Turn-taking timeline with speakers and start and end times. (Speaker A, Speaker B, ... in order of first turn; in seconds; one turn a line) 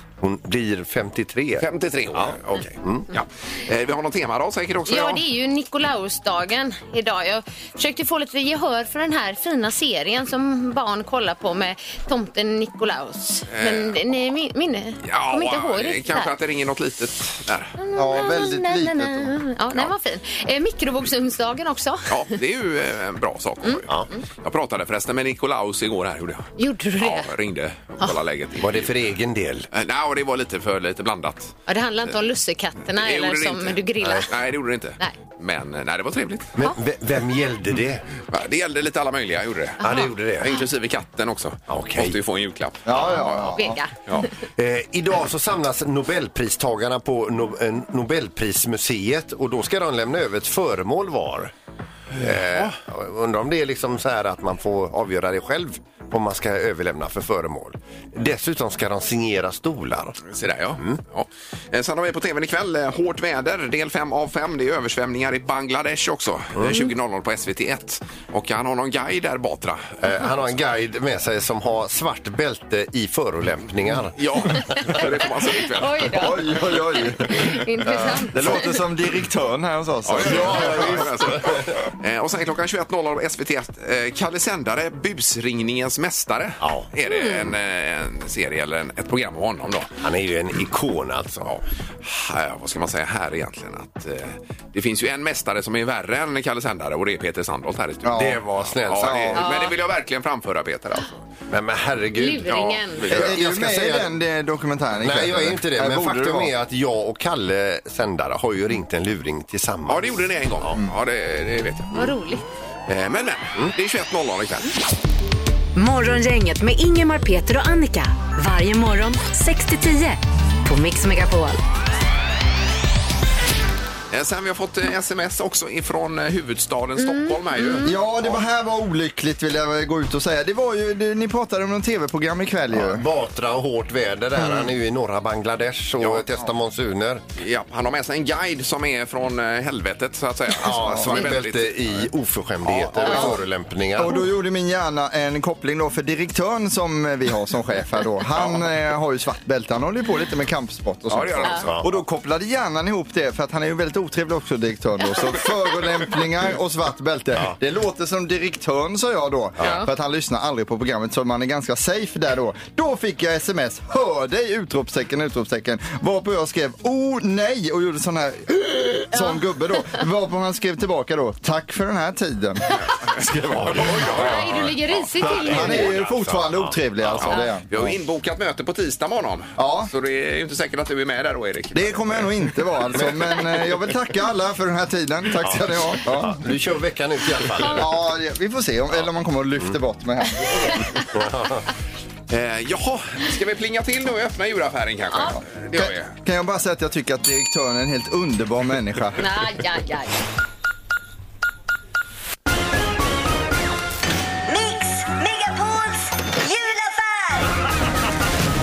Speaker A: 0.2-3.1
Speaker B: 1.6-5.2
Speaker C: 4.9-16.3
Speaker B: 13.5-14.0
Speaker B: 15.0-17.8
Speaker C: 17.8-22.1
Speaker D: 17.9-19.3
Speaker B: 22.1-23.9
Speaker C: 23.6-24.2
Speaker B: 24.4-29.0
Speaker C: 26.6-27.3
Speaker A: 28.6-29.7
Speaker B: 29.7-31.6
Speaker C: 31.7-34.3
Speaker B: 32.9-36.5
Speaker A: 36.5-38.0
Speaker B: 38.3-44.3
Speaker A: 39.8-40.6
Speaker C: 39.8-40.1
Speaker A: 41.7-42.2
Speaker D: 42.9-43.8
Speaker C: 43.5-44.3
Speaker A: 44.6-51.5
Speaker A: 52.1-60.2
Speaker B: 60.3-70.3
Speaker A: 66.5-66.8
Speaker A: 70.0-74.7
Speaker B: 74.2-76.3
Speaker C: 75.6-76.5
Speaker D: 76.1-81.1
Speaker C: 77.2-78.8
Speaker B: 80.1-89.9
Speaker A: 80.1-81.8
Speaker A: 86.6-86.9
Speaker C: 87.0-87.5
Speaker A: 90.0-91.5
Speaker B: 91.5-101.2
Speaker D: 98.0-99.5
Speaker A: 98.1-99.4
Speaker C: 99.4-99.7
Speaker A: 101.5-104.2
Speaker C: 102.2-103.1
Speaker B: 102.5-103.3
Speaker D: 103.1-106.5
Speaker A: 105.0-110.8
Speaker B: 109.9-112.1
Speaker C: 111.9-112.5
Speaker B: 112.9-114.8
Speaker E: 115.8-121.6
Speaker B: 124.1-128.4
Speaker C: 127.0-128.0
Speaker D: 127.8-133.1
Speaker A: 132.7-137.2
Speaker D: 134.4-134.7
Speaker B: 136.0-136.2
Speaker B: 137.4-142.1
Speaker A: 140.6-144.2
Speaker B: 142.7-143.2
Speaker D: 143.0-143.4
Speaker D: 144.0-174.3
Speaker B: 151.1-151.8
Speaker A: 151.6-151.9
Speaker A: 159.6-159.8
Speaker C: 159.6-159.9
Speaker C: 169.1-169.4
Speaker B: 172.8-175.9
Speaker A: 173.5-176.8
Speaker C: 174.1-175.9
Speaker D: 175.2-177.9
Speaker B: 177.0-182.3
Speaker C: 177.3-177.5
Speaker D: 179.6-179.9
Speaker D: 181.7-186.4
Speaker A: 182.9-183.7
Speaker A: 185.4-187.9
Speaker D: 187.6-191.0
Speaker A: 190.9-191.7
Speaker B: 192.3-196.1
Speaker C: 195.1-195.4
Speaker D: 195.7-199.2
Speaker C: 199.2-200.2
Speaker F: 204.5-207.5